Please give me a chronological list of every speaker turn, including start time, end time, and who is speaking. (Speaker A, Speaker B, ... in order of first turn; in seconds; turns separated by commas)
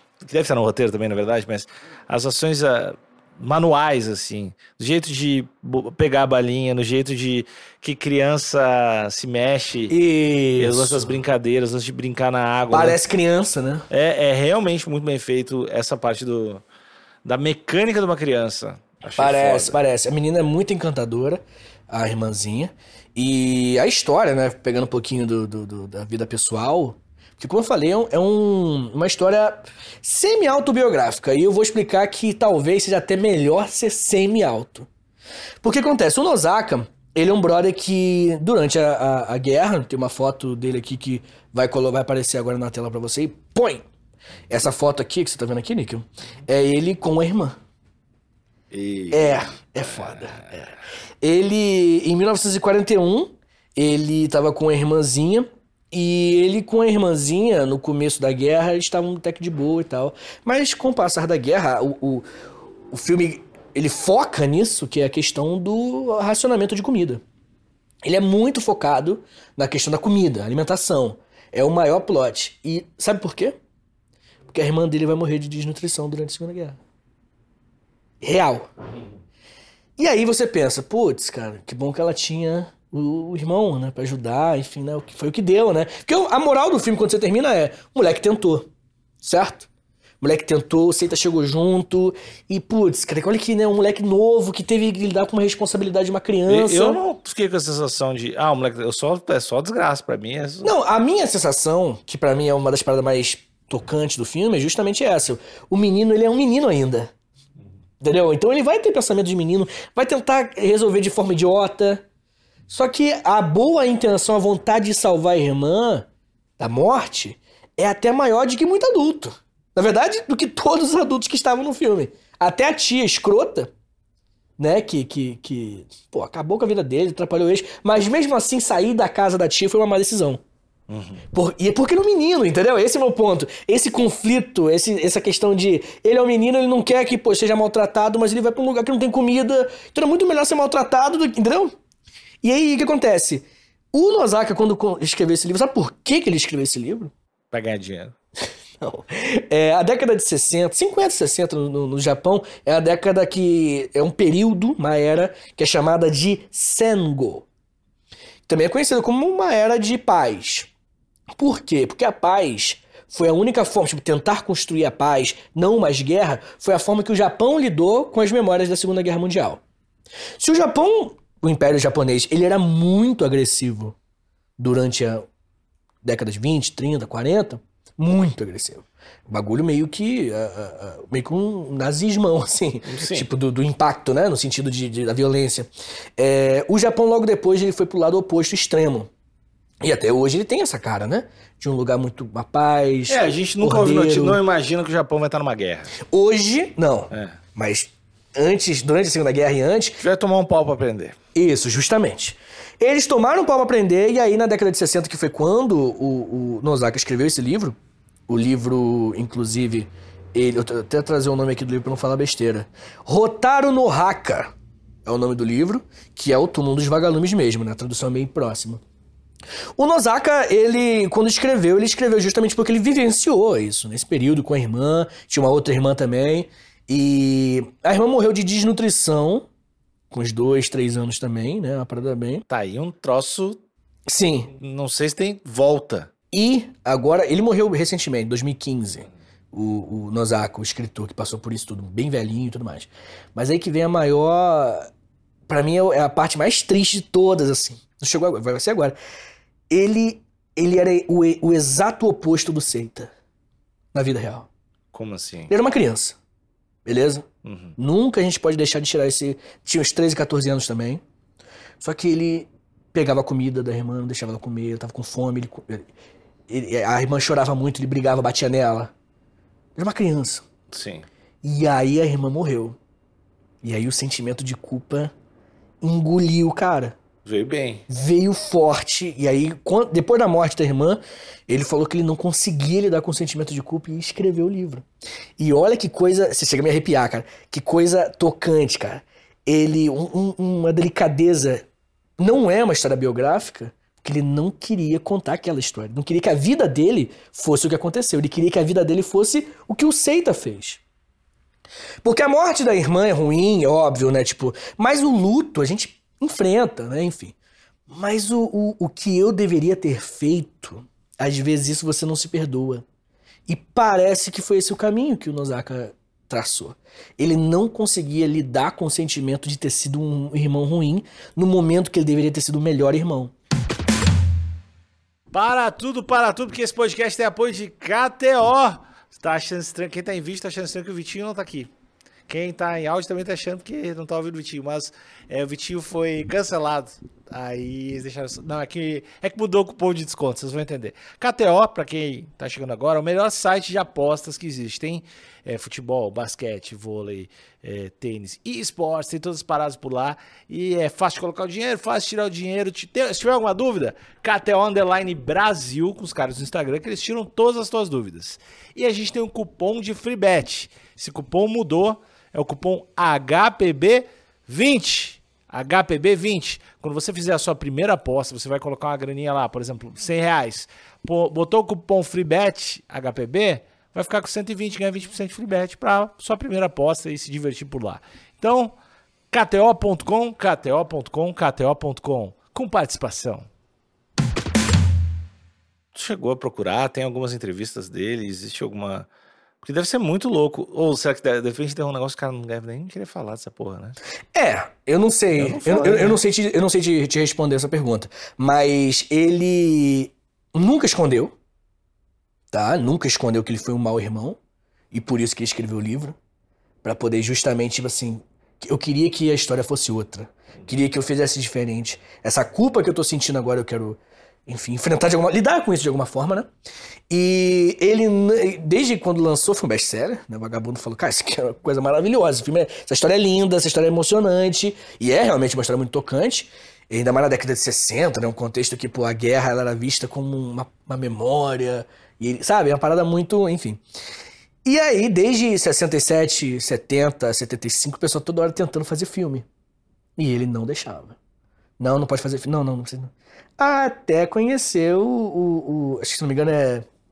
Speaker A: 0.2-9.9, Speaker B: 9.9-11.2, Speaker A: 10.6-13.0, Speaker B: 12.7-13.8, Speaker A: 13.9-16.6, Speaker A: 17.2-19.8, Speaker B: 19.2-34.9, Speaker B: 35.6-43.8, Speaker B: 44.5-47.6, Speaker A: 48.7-49.4, Speaker B: 49.1-62.2, Speaker A: 50.0-50.5, Speaker B: 62.9-67.2, Speaker B: 68.0-73.5, Speaker B: 74.5-76.8, Speaker B: 78.2-78.7, Speaker B: 80.0-88.7, Speaker B: 89.2-89.7, Speaker B: 90.2-97.0, Speaker A: 96.5-100.7, Speaker B: 100.6-107.1, Speaker B: 108.0-112.0, Speaker B: 112.7-116.1, Speaker B: 116.6-123.7, Speaker B: 124.6-130.4, Speaker A: 130.9-131.2, Speaker B: 131.3-141.7, Speaker B: 142.4-147.1, Speaker A: 147.5-148.1, Speaker B: 148.8-157.4, Speaker B: 158.5-160.7, Speaker B: 161.4-169.6, Speaker B: 170.4-173.9, Speaker B: 174.6-175.2, Speaker B: 176.0-189.1, Speaker A: 182.8-183.3, Speaker B: 189.8-194.4, Speaker A: 193.1-195.9, Speaker B: 196.0-200.0, Speaker A: 197.1-197.4, Speaker A: 200.0-201.2, Speaker B: 201.3-207.8, Speaker B: 208.3-214.5, Speaker B: 215.1-218.8, Speaker B: 219.8-229.5, Speaker B: 230.1-232.4, Speaker A: 232.5-233.6, Speaker B: 234.1-234.5, Speaker A: 234.6-236.1, Speaker B: 236.3-244.9, Speaker B: 245.5-248.9, Speaker B: 249.7-253.1, Speaker B: 253.9-254.5, Speaker A: 254.9-255.5, Speaker B: 255.5-256.1, Speaker B: 256.8-257.2, Speaker A: 257.4-257.8, Speaker B: 257.8-261.0, Speaker B: 261.8-265.9, Speaker B: 266.5-268.9, Speaker B: 269.8-270.4, Speaker A: 270.7-271.1, Speaker B: 271.4-272.8, Speaker B: 273.6-275.1, Speaker B: 275.8-277.0, Speaker A: 277.2-277.9, Speaker B: 277.9-284.8, Speaker B: 285.4-291.6, Speaker B: 292.2-300.8, Speaker B: 302.0-307.4, Speaker B: 307.9-312.8, Speaker B: 313.5-323.3, Speaker A: 325.3-331.7, Speaker A: 332.3-378.8, Speaker A: 379.3-383.5, Speaker A: 385.9-389.1, Speaker A: 389.6-393.9, Speaker B: 394.3-401.3, Speaker A: 395.4-396.2, Speaker B: 402.5-404.4, Speaker B: 404.9-406.1, Speaker B: 406.8-416.5, Speaker B: 417.1-433.8, Speaker B: 434.6-439.4, Speaker B: 440.2-441.1, Speaker B: 441.8-446.8